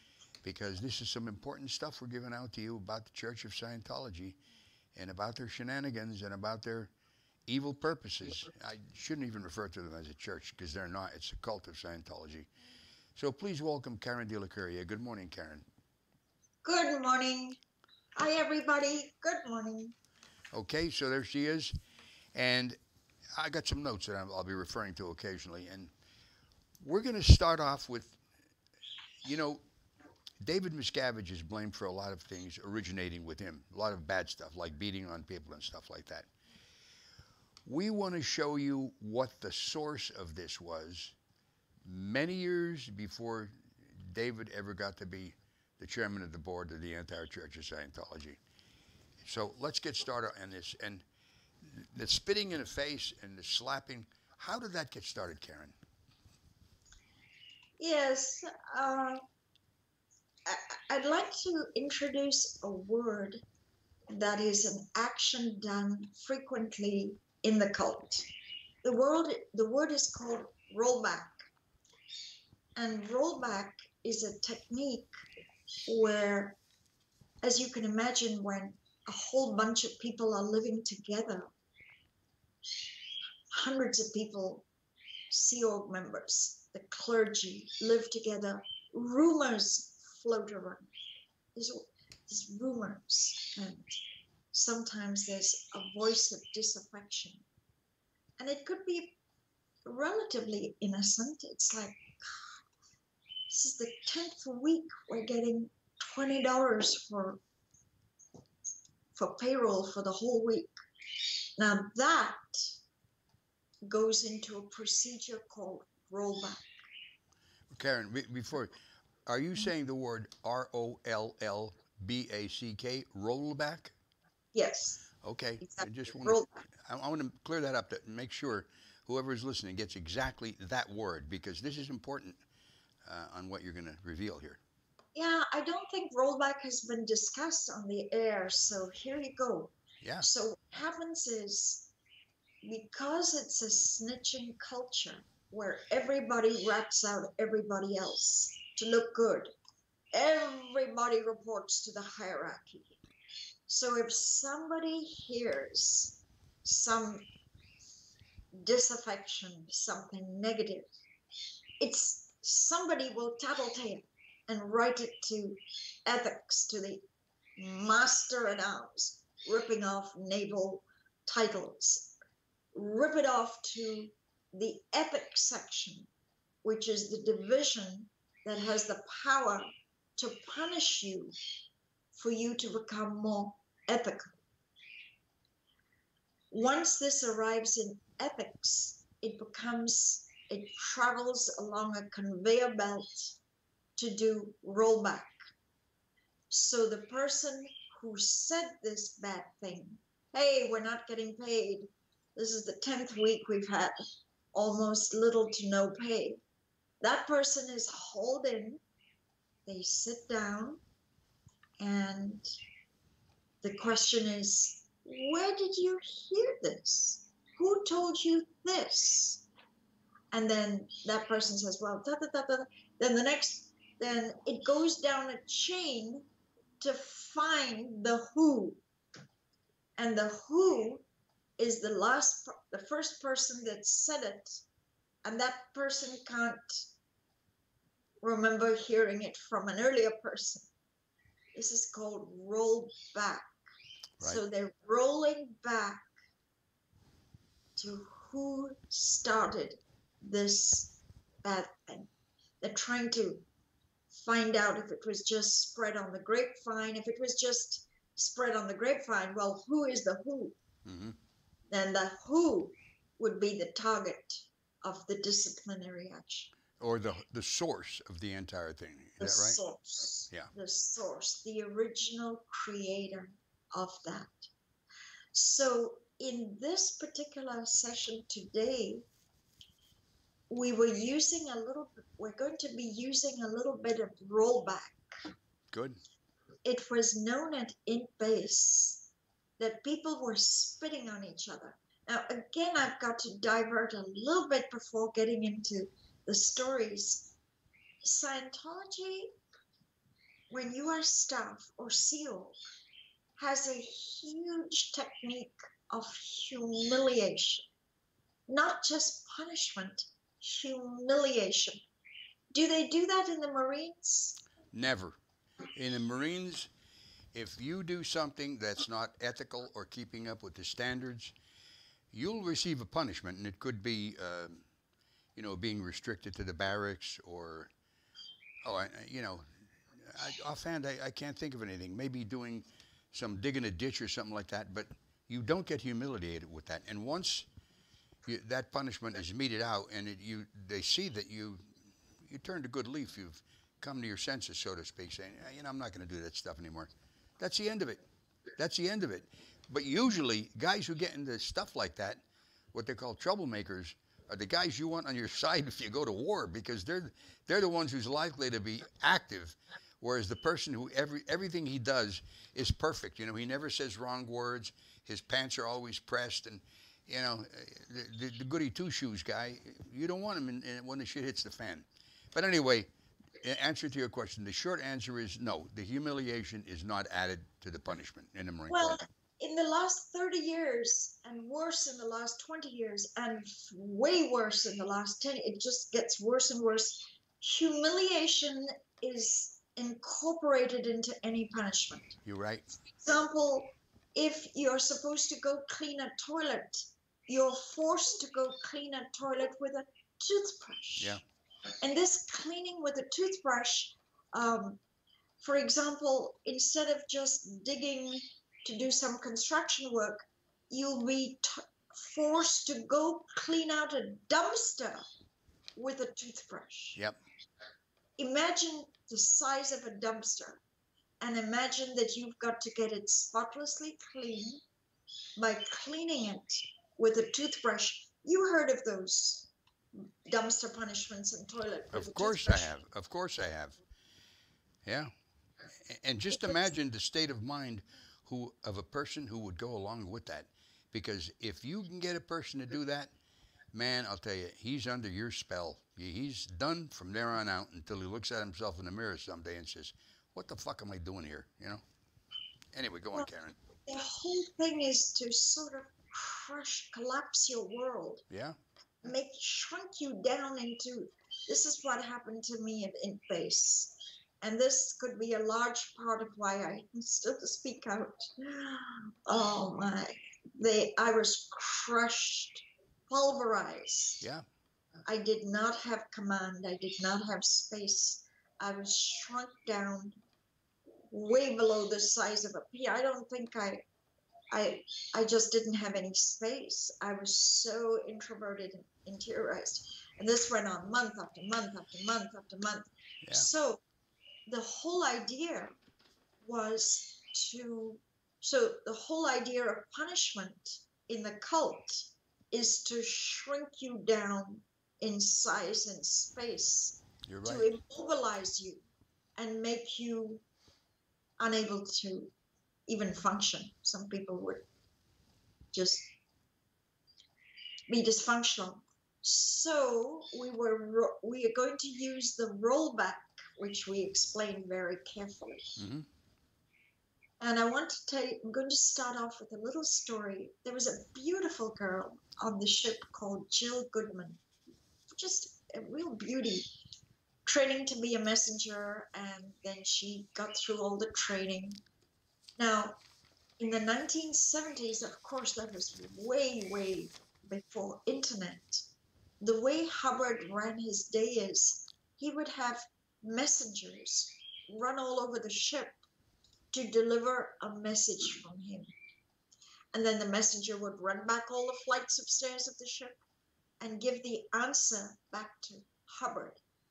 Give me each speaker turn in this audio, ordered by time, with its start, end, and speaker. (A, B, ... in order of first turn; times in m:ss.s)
0:00.4-0:04.4 A
0:04.9-0:06.9 A
0:07.5-0:12.5 A
0:13.1-0:15.6 A
0:16.6-0:17.6 B
0:18.2-0:19.9 B
0:20.5-0:21.8 A
0:22.3-0:22.8 A
0:23.4-0:25.9 A
0:26.8-0:28.2 A
0:29.2-0:29.6 A
0:30.4-0:36.3 A
0:37.6-0:41.1 A
0:41.8-0:48.4 A
0:49.2-0:51.0 A
0:51.6-0:55.7 A
0:57.8-0:59.2 B
1:00.4-1:03.4 B
1:04.1-1:08.3 B
1:08.8-1:11.5 B
1:12.8-1:15.1 B
1:15.9-1:16.6 B
1:17.4-1:21.5 B
1:23.5-1:24.6 B
1:25.3-1:30.9 B
1:31.5-1:34.0 B
1:34.5-1:37.4 B
1:38.4-1:39.2 B
1:39.8-1:42.0 B
1:43.5-1:47.4 B
1:49.2-1:50.7 B
1:51.6-1:52.7 B
1:53.8-1:56.6 B
1:57.7-2:03.9 A
2:04.5-2:05.0 B
2:05.2-2:12.4 A
2:05.6-2:06.6 B
2:13.0-2:14.6 A
2:15.1-2:21.9 B
2:22.6-2:29.5 B
2:30.1-2:33.0 B
2:33.7-2:37.2 B
2:38.5-2:40.9 B
2:41.8-2:47.0 B
2:47.6-2:52.1 B
2:52.7-2:56.1 B
2:56.6-3:01.3 B
3:02.1-3:04.4 B
3:06.5-3:13.4 B
3:14.0-3:15.3 B
3:16.5-3:24.0 B
3:24.5-3:26.4 B
3:27.0-3:28.8 B
3:29.6-3:30.8 B
3:31.8-3:32.4 B
3:33.6-3:39.4 B
3:40.3-3:46.3 B
3:46.8-3:48.8 B
3:50.0-3:51.0 B
3:51.6-3:54.6 B
3:55.2-3:56.9 B
3:58.2-4:00.7 B
4:01.5-4:03.5 B
4:04.2-4:06.1 B
4:07.8-4:12.1 B
4:12.6-4:13.4 B
4:14.1-4:20.6 B
4:20.8-4:21.2 A
4:21.7-4:26.5 B
4:26.8-4:29.6 A
4:29.2-4:34.5 B
4:35.3-4:39.0 B
4:40.5-4:45.0 B
4:45.7-4:46.0 A
4:46.6-4:49.1 B
4:49.6-4:57.3 B
4:58.0-4:59.3 B
5:00.5-5:02.6 B
5:03.4-5:07.6 B
5:08.5-5:11.8 B
5:12.5-5:14.4 B
5:14.7-5:15.2 A
5:15.7-5:16.7 A
5:17.3-5:21.3 A
5:22.1-5:24.6 A
5:25.3-5:27.7 A
5:28.6-5:37.5 A
5:38.2-5:41.6 A
5:42.2-5:48.0 A
5:48.6-6:12.9 A
6:13.4-6:19.0 A
6:18.7-6:32.2 B
6:32.2-6:32.6 A
6:33.0-6:41.2 B
6:41.8-6:44.8 B
6:45.4-6:55.0 B
6:55.8-6:57.0 B
6:58.2-7:00.6 B
7:01.2-7:04.6 B
7:05.4-7:12.7 B
7:11.9-7:13.8 A
7:14.8-7:15.1 A
7:15.8-7:23.1 A
7:23.7-7:31.8 A
7:32.7-7:33.6 A
7:33.8-7:38.2 B
7:38.3-7:38.6 A
7:39.0-7:54.2 B
7:55.0-8:00.2 B
8:01.1-8:03.8 B
8:04.5-8:13.8 B
8:14.4-8:15.7 B
8:16.4-8:28.8 B
8:27.3-8:27.7 A
8:29.4-8:30.4 B
8:31.4-8:32.3 B
8:32.9-8:34.6 B
8:35.7-8:36.1 B
8:37.9-8:45.8 B
8:45.8-8:46.1 A
8:47.4-8:54.4 B
8:55.1-8:56.7 B
8:57.4-9:01.8 B
9:02.6-9:03.0 B
9:03.6-9:08.8 B
9:09.4-9:16.0 B
9:16.7-9:18.9 B
9:19.9-9:23.2 B
9:23.8-9:26.6 B